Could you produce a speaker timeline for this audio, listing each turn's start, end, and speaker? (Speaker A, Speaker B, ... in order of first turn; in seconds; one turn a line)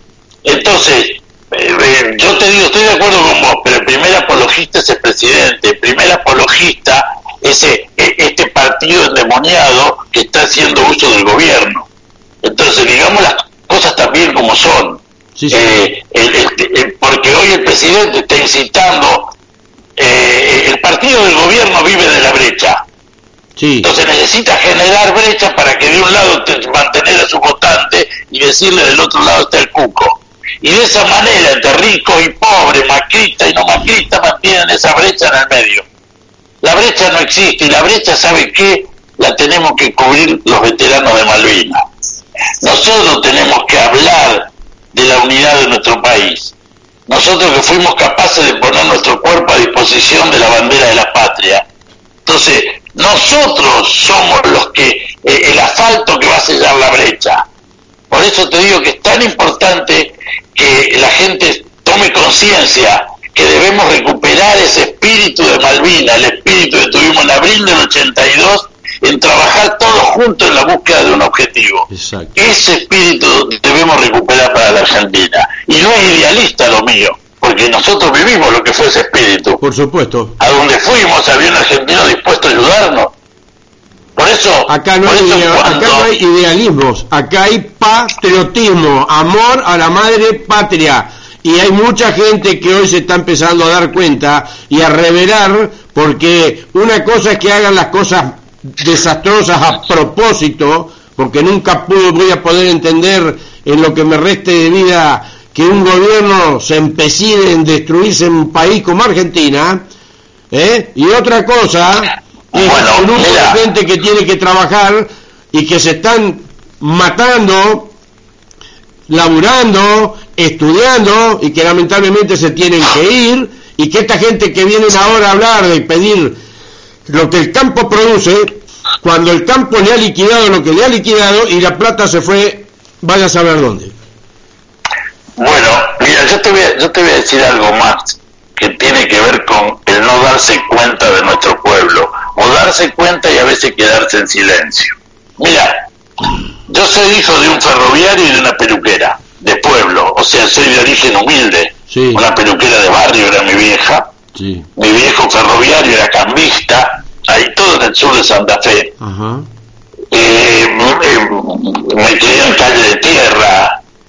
Speaker A: 0.4-11.9
Speaker A: 12.4-15.0
Speaker B: 15.4-15.8
Speaker A: 15.5-19.3
Speaker A: 20.0-22.8
Speaker B: 23.6-23.9
Speaker A: 23.8-35.9
Speaker A: 36.6-41.8
Speaker A: 42.6-46.5
Speaker A: 47.1-51.6
Speaker A: 52.3-57.4
Speaker A: 58.1-79.6
Speaker B: 71.9-72.4
Speaker B: 79.6-80.3
Speaker A: 80.4-83.1
Speaker A: 84.2-86.1
Speaker B: 84.7-109.9
Speaker B: 110.5-117.9
Speaker A: 112.5-113.6
Speaker B: 119.1-126.4
Speaker B: 127.1-133.9
Speaker A: 135.4-145.8
Speaker A: 146.7-154.1
Speaker B: 151.9-152.2
Speaker B: 154.3-154.7
Speaker A: 154.8-158.9
Speaker B: 159.0-159.4
Speaker A: 160.1-163.7